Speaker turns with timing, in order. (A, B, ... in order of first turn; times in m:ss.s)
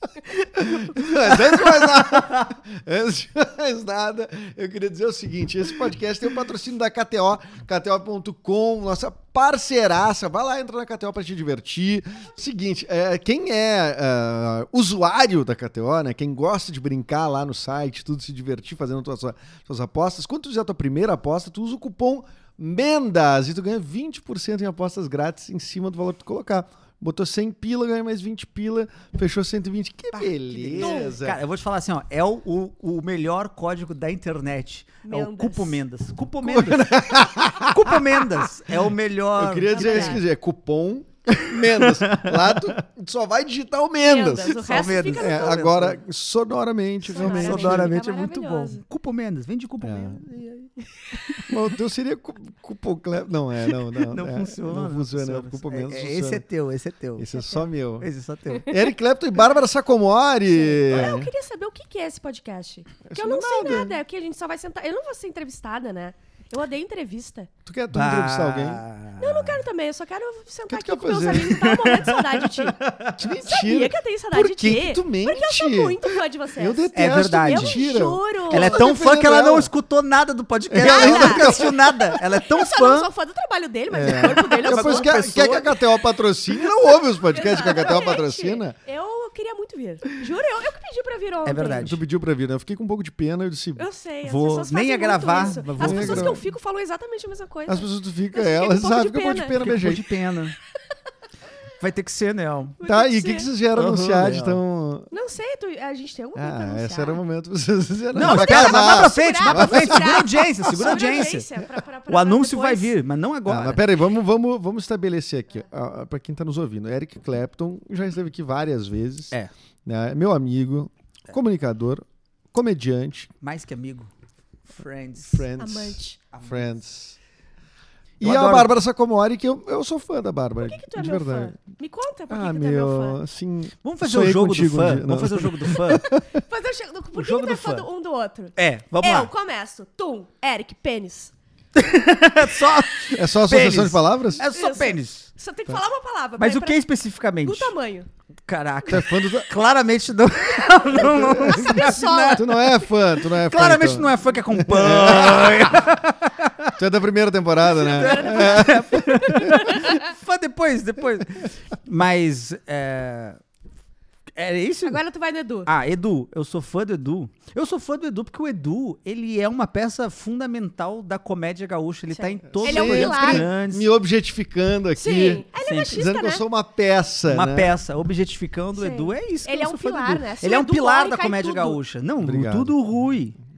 0:00.6-0:31.4 A
0:01.0-0:02.5 B
0:30.1-0:40.2 B
0:30.8-0:31.2 C
0:35.0-0:35.8 C
0:36.4-0:38.5 A
0:39.4-0:48.0 A
0:39.7-0:40.2 C
0:41.4-0:42.8 B
0:44.0-0:45.7 C
0:44.5-0:46.0 B
0:47.0-0:48.8 C
0:47.1-0:51.6 B
0:49.8-0:50.2 A
0:51.5-0:56.4 A
0:53.7-0:57.3 B
0:57.2-0:58.1 A
0:57.3-0:57.6 C
0:58.0-0:58.8 B
0:58.6-1:01.3 A
1:00.6-1:07.5 C
1:03.0-1:04.0 A
1:07.7-1:08.8 A
1:07.9-1:09.6 B
1:09.2-1:12.8 C
1:10.7-1:11.6 A
1:11.4-1:13.2 B
1:13.2-1:19.7 A
1:13.4-1:18.9 C
1:16.9-1:17.8 B
1:18.5-1:23.1 B
1:20.7-1:22.0 A
1:20.8-1:25.2 C
1:23.9-1:28.8 A
1:24.1-1:25.9 B
1:27.2-1:31.9 C
1:31.4-1:32.0 B
1:31.8-1:33.9 A
1:33.8-1:39.6 C
1:34.2-1:36.4 B
1:35.5-1:36.4 A
1:37.7-1:40.1 A
1:39.5-1:40.6 B
1:41.8-1:42.8 B
1:42.8-1:43.5 C
1:42.8-1:45.1 A
1:43.8-1:44.6 B
1:45.1-1:47.2 C
1:46.3-1:51.4 A
1:48.1-1:52.9 C
1:48.1-1:51.5 B
1:52.1-1:53.9 B
1:53.4-1:59.3 A
1:59.8-2:03.3 A
2:03.4-2:04.1 B
2:04.7-2:05.5 B
2:05.2-2:07.2 A
2:05.6-2:06.2 C
2:06.3-2:06.7 B
2:08.2-2:11.6 A
2:08.2-2:08.8 B
2:10.6-2:13.2 C
2:12.3-2:16.4 A
2:13.8-2:16.2 B
2:16.5-2:21.3 C
2:17.1-2:17.9 B
2:18.6-2:19.3 B
2:21.8-2:25.3 B
2:23.1-2:24.4 A
2:24.5-2:26.8 C
2:26.4-2:27.8 B
2:27.4-2:28.1 C
2:28.5-2:36.8 B
2:28.8-2:29.5 A
2:30.9-2:35.9 A
2:31.2-2:32.6 C
2:36.8-2:39.8 A
2:37.8-2:43.4 B
2:37.8-2:40.1 C
2:44.3-2:45.0 B
2:44.8-2:45.7 C
2:45.7-2:53.9 B
2:52.1-2:53.5 C
2:52.5-2:57.7 A
2:55.0-2:56.4 C
2:55.7-2:56.0 B
2:57.3-3:03.4 B
2:58.7-3:01.8 C
3:02.2-3:02.8 A